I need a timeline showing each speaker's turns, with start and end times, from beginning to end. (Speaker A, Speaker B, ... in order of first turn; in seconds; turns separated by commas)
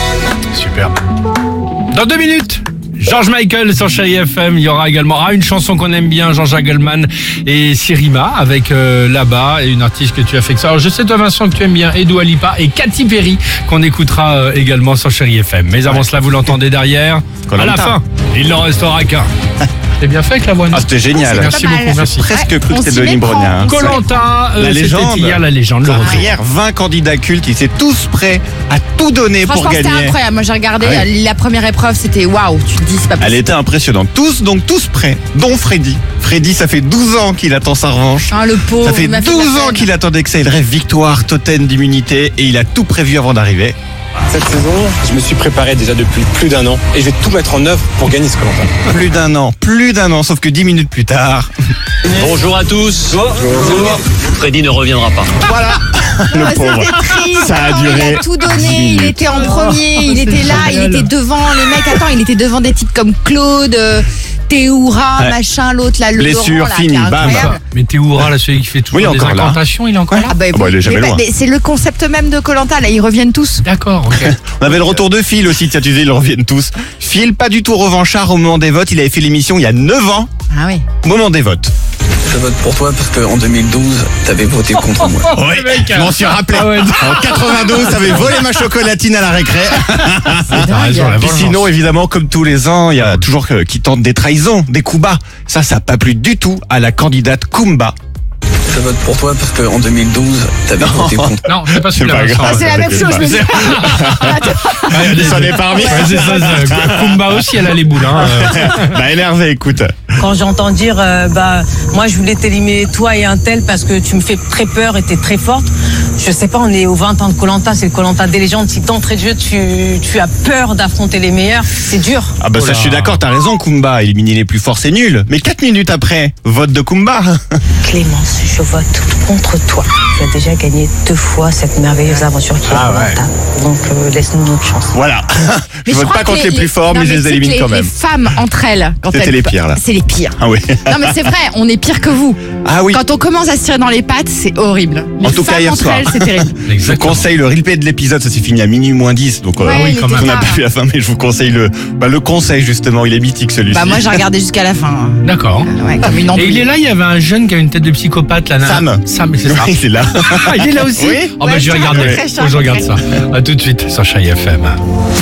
Speaker A: 0.5-1.0, Speaker A: 1.9-19.3, Speaker B: 17.5-18.0, Speaker A: 20.0-22.3, Speaker B: 20.7-24.0, Speaker C: 21.1-24.0, Speaker A: 23.7-26.3, Speaker B: 24.6-30.2, Speaker C: 29.4-33.5, Speaker B: 30.8-31.1, Speaker B: 33.2-43.8, Speaker C: 38.3-39.9, Speaker D: 44.3-48.8, Speaker B: 48.8-51.5, Speaker E: 52.1-55.4, Speaker B: 55.4-59.3, Speaker C: 56.3-67.6, Speaker A: 59.4-61.1, Speaker B: 66.2-67.5, Speaker A: 67.2-70.3, Speaker B: 68.9-71.2, Speaker C: 70.3-73.7, Speaker A: 73.6-74.4, Speaker B: 74.1-80.3, Speaker C: 80.5-80.9, Speaker B: 81.0-81.7, Speaker F: 82.2-85.3, Speaker A: 84.7-88.4, Speaker B: 85.3-98.0, Speaker A: 90.5-91.7, Speaker C: 90.5-91.2, Speaker A: 93.0-93.2, Speaker F: 98.7-101.2, Speaker B: 100.8-107.6, Speaker A: 101.5-109.0, Speaker C: 102.4-104.9, Speaker C: 105.8-106.2, Speaker B: 108.1-110.1, Speaker G: 110.2-122.3, Speaker B: 122.4-127.6, Speaker A: 122.5-123.2, Speaker G: 127.8-135.0, Speaker A: 132.1-133.2, Speaker B: 134.9-137.9, Speaker C: 135.9-146.6, Speaker B: 139.1-139.8, Speaker B: 140.4-141.2, Speaker B: 142.7-143.0, Speaker B: 145.2-154.2, Speaker A: 146.7-147.3, Speaker C: 149.6-150.6, Speaker A: 149.7-150.4, Speaker C: 153.7-156.7, Speaker A: 155.2-164.8, Speaker B: 158.6-162.2, Speaker C: 161.4-163.0